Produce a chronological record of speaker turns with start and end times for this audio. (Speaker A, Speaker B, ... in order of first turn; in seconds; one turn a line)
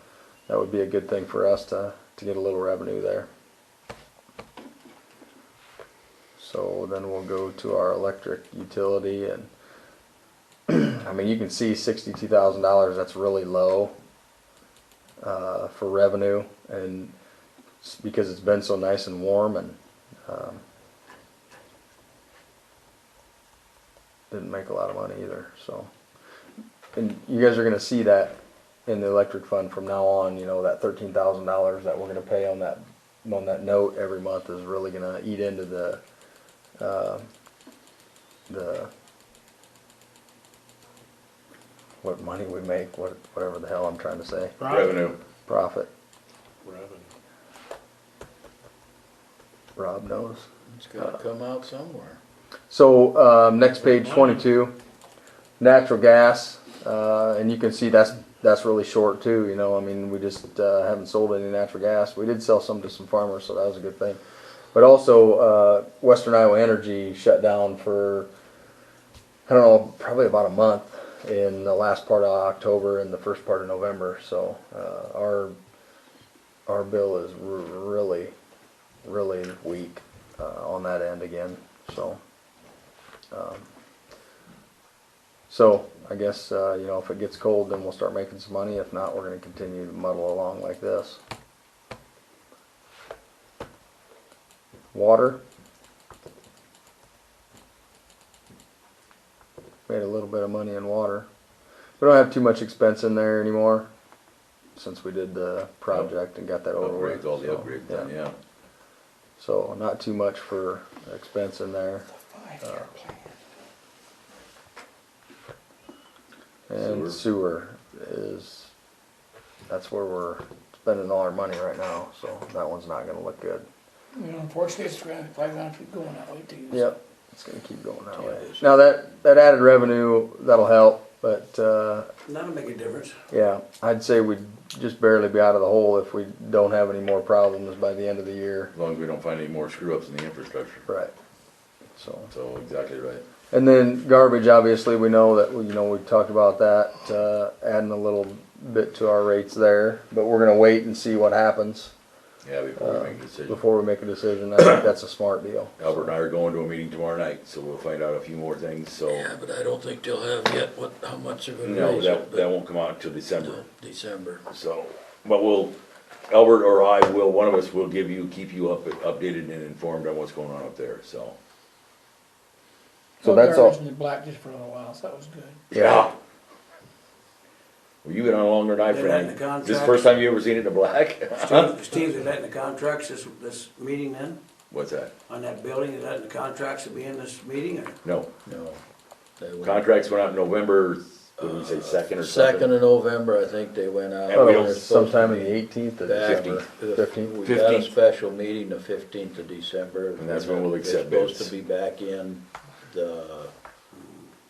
Speaker A: 0.5-3.3
Speaker A: 6.4-9.5
Speaker A: 10.7-13.9
Speaker A: 15.2-17.1
Speaker A: 17.8-20.6
Speaker A: 24.3-25.9
Speaker A: 26.9-36.0
Speaker A: 36.8-37.3
Speaker A: 38.5-38.9
Speaker A: 42.0-44.6
Speaker B: 44.6-44.9
Speaker C: 44.6-45.2
Speaker A: 45.5-45.9
Speaker B: 46.7-46.9
Speaker A: 49.8-50.5
Speaker D: 50.7-52.2
Speaker A: 52.7-54.7
Speaker B: 54.0-54.3
Speaker A: 55.6-64.2
Speaker A: 64.7-68.3
Speaker A: 69.5-75.5
Speaker A: 76.7-78.3
Speaker A: 79.0-82.2
Speaker A: 83.3-83.7
Speaker A: 85.5-91.2
Speaker A: 94.9-95.4
Speaker A: 99.9-101.3
Speaker A: 102.0-103.9
Speaker A: 104.8-108.1
Speaker C: 106.8-108.3
Speaker A: 109.4-112.1
Speaker B: 112.2-113.3
Speaker A: 116.7-118.7
Speaker C: 116.8-117.2
Speaker A: 119.7-123.7
Speaker B: 124.2-126.9
Speaker A: 126.7-132.1
Speaker B: 128.2-128.5
Speaker E: 132.2-133.2
Speaker A: 133.3-138.7
Speaker C: 138.7-140.8
Speaker A: 140.9-141.1
Speaker A: 141.9-142.3
Speaker C: 142.3-143.2
Speaker A: 143.5-151.9
Speaker C: 152.4-153.6
Speaker A: 152.8-156.1
Speaker C: 154.6-154.8
Speaker C: 155.8-159.3
Speaker D: 159.1-162.5
Speaker C: 161.6-163.7
Speaker D: 163.4-164.4
Speaker C: 164.5-165.8
Speaker C: 166.3-171.3
Speaker B: 173.2-175.6
Speaker A: 173.2-173.8
Speaker C: 175.7-176.1
Speaker A: 175.7-176.1
Speaker C: 178.0-181.7
Speaker E: 178.9-180.2
Speaker E: 181.3-184.4
Speaker C: 184.7-185.1
Speaker E: 185.3-188.0
Speaker C: 188.0-188.3
Speaker D: 188.4-188.8
Speaker D: 189.4-189.9
Speaker C: 189.6-192.7
Speaker D: 191.4-203.5
Speaker C: 194.3-194.8
Speaker A: 194.3-197.4
Speaker C: 196.2-196.6
Speaker C: 197.4-197.9
Speaker C: 200.2-201.5